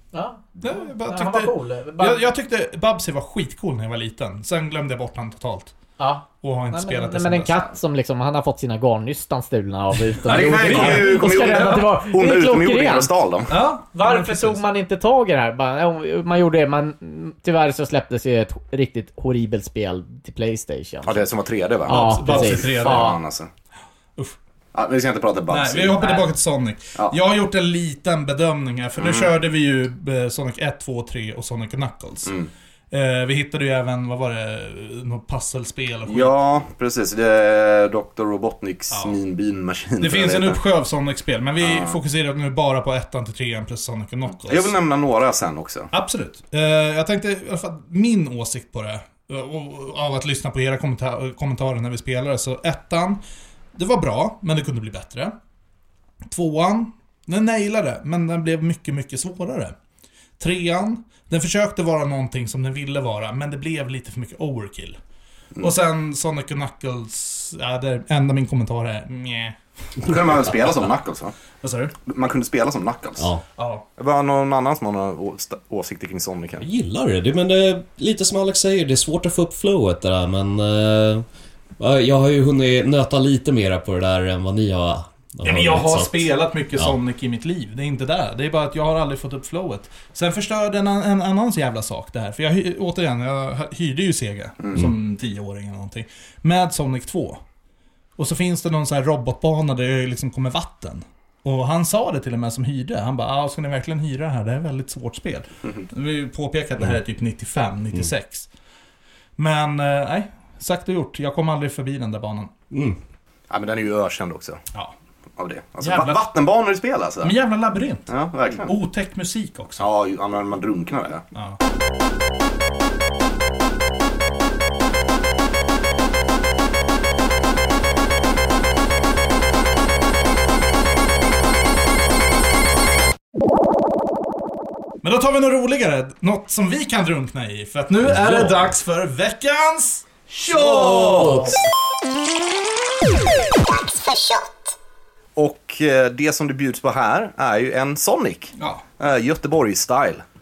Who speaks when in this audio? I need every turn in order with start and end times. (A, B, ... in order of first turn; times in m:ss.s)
0:00.1-0:02.2 A
0:00.6-0:05.7 B
0:06.0-0:13.1 A
0:06.4-0:07.7 B
0:10.3-0:13.6 C
0:10.3-0:11.6 B
0:13.5-0:14.6 B
0:13.9-0:21.3 A
0:21.0-0:23.5 C
0:21.9-0:23.2 A
0:21.9-0:23.2 B
0:24.7-0:26.0 C
0:25.5-0:32.3 B
0:26.0-0:26.3 A
0:29.0-0:29.3 C
0:32.2-0:32.5 C
0:32.9-0:36.3 B
0:36.1-0:40.6 C
0:38.9-0:39.2 B
0:40.0-0:44.8 B
0:41.6-0:42.0 C
0:44.5-0:45.9 C
0:45.9-0:53.2 B
0:53.8-0:55.3 B
0:56.3-0:59.8 B
1:00.4-1:05.0 B
1:05.6-1:09.6 B
1:10.0-1:11.3 C
1:11.6-1:11.9 B
1:12.1-1:13.3 C
1:13.2-1:13.4 D
1:13.6-1:13.8 B
1:14.0-1:16.7 C
1:16.6-1:21.2 D
1:21.8-1:27.0 D
1:25.4-1:37.4 B
1:38.2-1:48.5 B
1:49.4-1:52.5 B
1:52.7-1:53.0 D
1:53.5-1:54.6 C
1:55.4-1:57.3 C
1:55.8-1:56.2 B
1:57.2-1:59.9 B
1:58.1-1:58.7 C
1:59.8-2:01.2 C
2:15.0-2:21.5 B
2:18.1-2:18.5 D
2:20.4-2:21.6 C
2:25.4-2:30.2 C
2:28.6-2:28.8 B